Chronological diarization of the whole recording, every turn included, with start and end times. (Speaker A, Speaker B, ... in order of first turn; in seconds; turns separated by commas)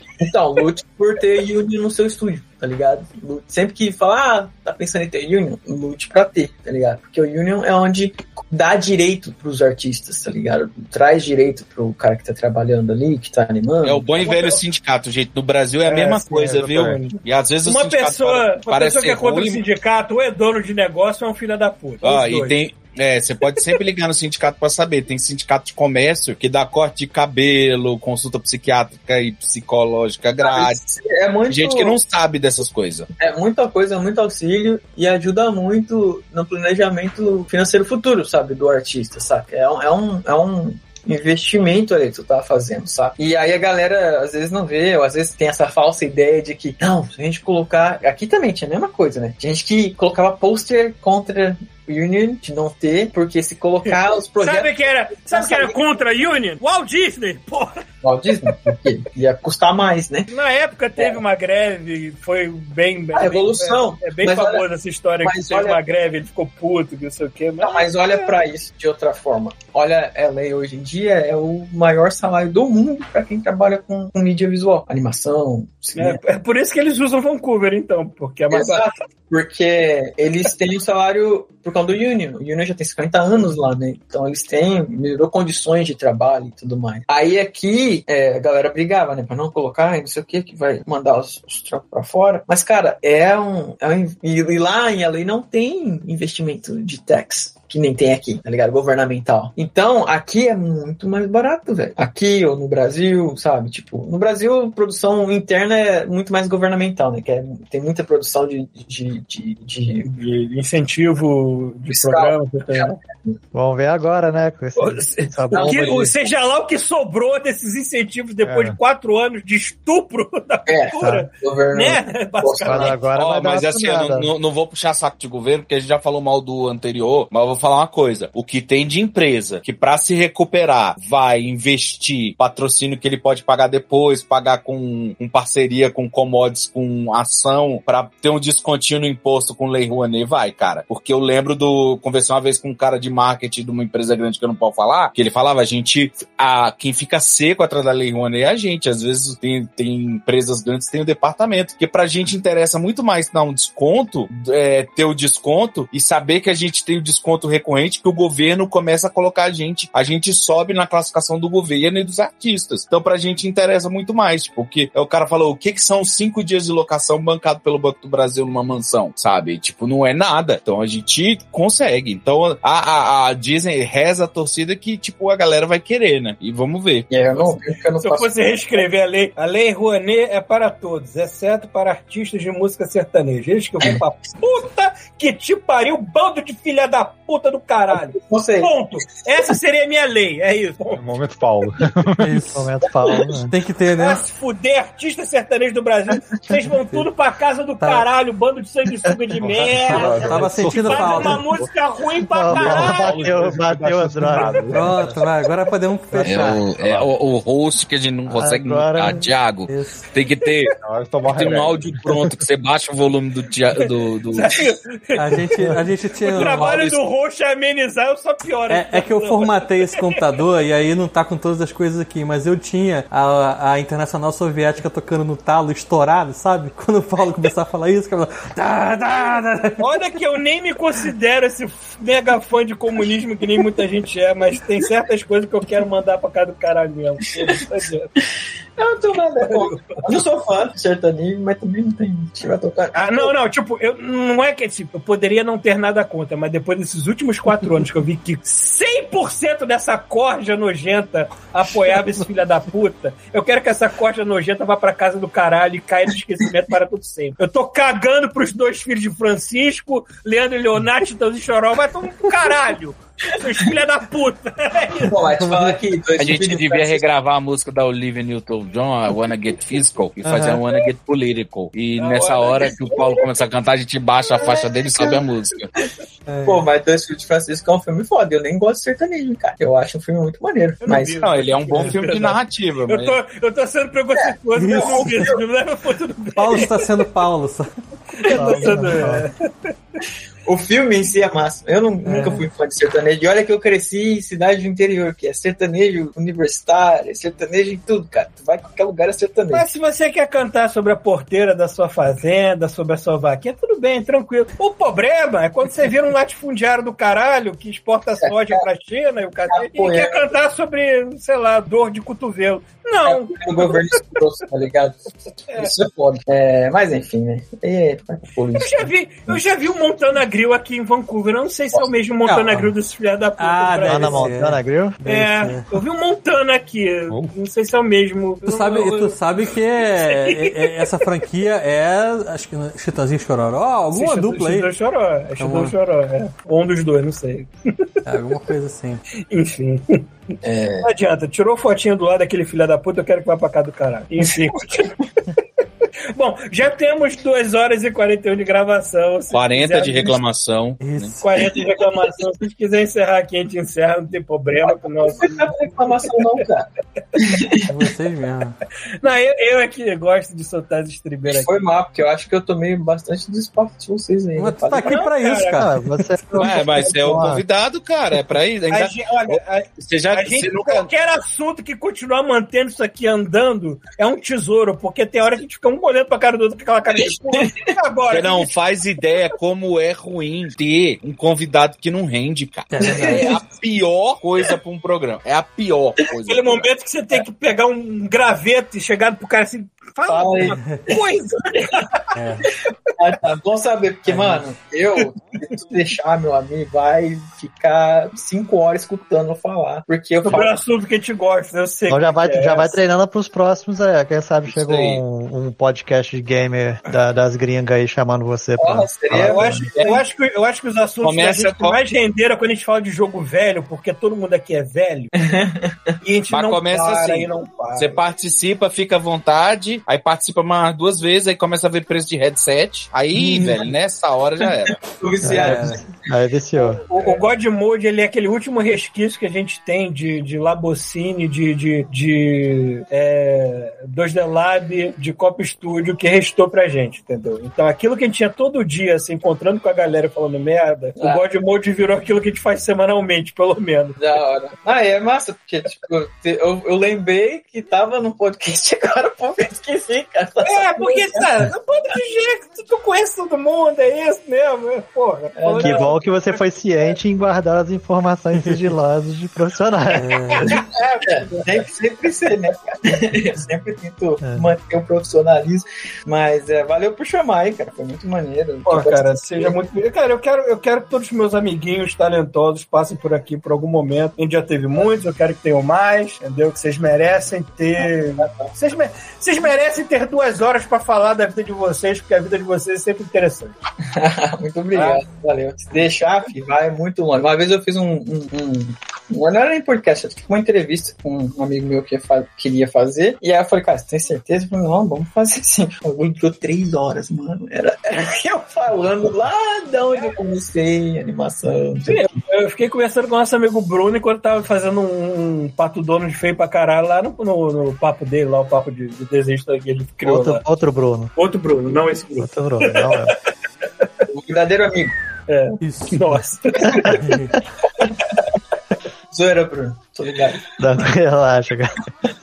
Speaker A: 0.2-14.1, Speaker B: 13.8-19.6, Speaker C: 14.2-14.6, Speaker C: 15.8-22.6, Speaker B: 22.0-30.8, Speaker A: 30.4-32.0, Speaker B: 31.5-33.1, Speaker A: 33.2-54.7, Speaker C: 53.9-57.8, Speaker A: 55.2-55.8, Speaker A: 58.0-60.3, Speaker C: 60.3-68.3, Speaker A: 61.0-61.2, Speaker A: 63.1-64.6, Speaker A: 65.2-65.8, Speaker A: 67.6-76.2, Speaker C: 76.0-78.9, Speaker A: 78.5-110.1, Speaker C: 110.0-113.0, Speaker A: 111.9-113.4, Speaker D: 113.5-116.1, Speaker C: 114.8-123.0, Speaker A: 115.5-116.1, Speaker D: 118.5-118.7, Speaker A: 120.7-123.0, Speaker D: 121.0-121.3, Speaker D: 122.6-124.3, Speaker B: 123.1-177.6, Speaker A: 177.1-178.8, Speaker C: 178.0-191.0, Speaker A: 187.9-188.7, Speaker E: 190.9-192.4, Speaker F: 192.2-192.7, Speaker D: 192.5-193.5, Speaker F: 193.5-194.2, Speaker C: 194.0-203.5, Speaker F: 197.8-198.1, Speaker E: 199.4-201.5, Speaker F: 199.8-201.5, Speaker D: 202.2-204.7, Speaker E: 202.5-205.2, Speaker C: 204.4-204.7, Speaker F: 204.7-206.6, Speaker E: 206.1-207.1, Speaker B: 206.2-210.7, Speaker A: 206.2-206.6, Speaker D: 208.3-209.3, Speaker F: 209.7-210.0, Speaker E: 210.8-212.3, Speaker B: 211.2-214.6, Speaker C: 214.3-219.7, Speaker F: 215.1-216.9, Speaker B: 216.4-217.0, Speaker F: 218.7-230.2, Speaker C: 229.8-238.1, Speaker A: 237.3-237.6, Speaker A: 238.8-243.3, Speaker C: 239.4-240.2, Speaker C: 242.9-265.2, Speaker A: 263.5-263.7, Speaker A: 265.0-267.0, Speaker F: 265.4-265.7, Speaker B: 266.2-275.7, Speaker F: 270.2-270.6, Speaker C: 272.0-273.3, Speaker A: 274.4-275.8, Speaker F: 276.3-276.7, Speaker A: 276.4-281.2, Speaker C: 280.8-286.8, Speaker B: 281.2-283.2, Speaker F: 281.7-282.0, Speaker A: 284.2-285.4, Speaker F: 284.5-285.3, Speaker F: 286.3-287.7, Speaker C: 288.2-289.7, Speaker A: 288.3-288.9, Speaker D: 288.3-289.2, Speaker A: 290.4-299.7, Speaker F: 292.1-292.4, Speaker C: 292.1-292.4, Speaker C: 299.5-314.0, Speaker A: 308.2-308.6, Speaker A: 309.5-310.3, Speaker A: 313.0-319.5, Speaker C: 318.5-324.3, Speaker F: 322.2-322.7, Speaker F: 323.4-325.8, Speaker D: 323.8-325.0, Speaker C: 325.1-331.1, Speaker F: 328.4-334.7, Speaker C: 333.9-337.9, Speaker F: 335.4-335.8, Speaker F: 338.0-339.0, Speaker C: 339.3-344.9, Speaker A: 340.4-340.9, Speaker C: 346.1-350.1, Speaker B: 349.3-351.1, Speaker F: 350.8-351.4, Speaker C: 351.2-355.5, Speaker A: 351.4-352.0, Speaker A: 354.6-357.7, Speaker F: 357.6-358.6, Speaker C: 359.0-361.5, Speaker A: 361.2-365.1, Speaker F: 364.4-365.7, Speaker C: 364.8-365.6, Speaker D: 365.5-367.4, Speaker B: 366.4-370.9, Speaker C: 368.7-378.5, Speaker A: 377.0-377.6, Speaker B: 378.1-386.7, Speaker F: 382.7-383.3, Speaker A: 382.8-383.4, Speaker C: 386.2-392.1, Speaker A: 390.1-391.7, Speaker F: 392.1-392.4, Speaker A: 393.0-400.6, Speaker F: 394.1-394.5, Speaker C: 400.2-402.7, Speaker D: 401.9-409.7, Speaker B: 404.5-405.0, Speaker A: 408.6-410.0, Speaker C: 409.2-415.1, Speaker B: 411.0-411.8, Speaker A: 415.2-415.9, Speaker C: 416.0-418.0, Speaker B: 416.3-424.8, Speaker D: 423.3-423.6, Speaker A: 424.4-426.0, Speaker D: 425.2-426.8, Speaker F: 425.3-425.7, Speaker C: 425.3-425.6, Speaker C: 426.8-444.0, Speaker A: 427.0-427.2, Speaker A: 441.0-441.2, Speaker A: 444.0-451.5, Speaker C: 450.4-456.4, Speaker A: 455.4-455.9, Speaker D: 455.6-460.2, Speaker F: 459.9-460.6, Speaker C: 460.3-461.5, Speaker A: 460.6-469.6, Speaker C: 468.6-483.5, Speaker A: 477.8-478.5, Speaker A: 483.9-502.0, Speaker C: 501.8-510.4, Speaker D: 510.0-511.1, Speaker C: 511.1-513.2, Speaker D: 512.2-513.2, Speaker A: 514.1-514.9, Speaker C: 515.3-517.2, Speaker F: 515.6-516.2, Speaker F: 517.0-517.3, Speaker A: 519.1-520.5, Speaker D: 520.6-521.8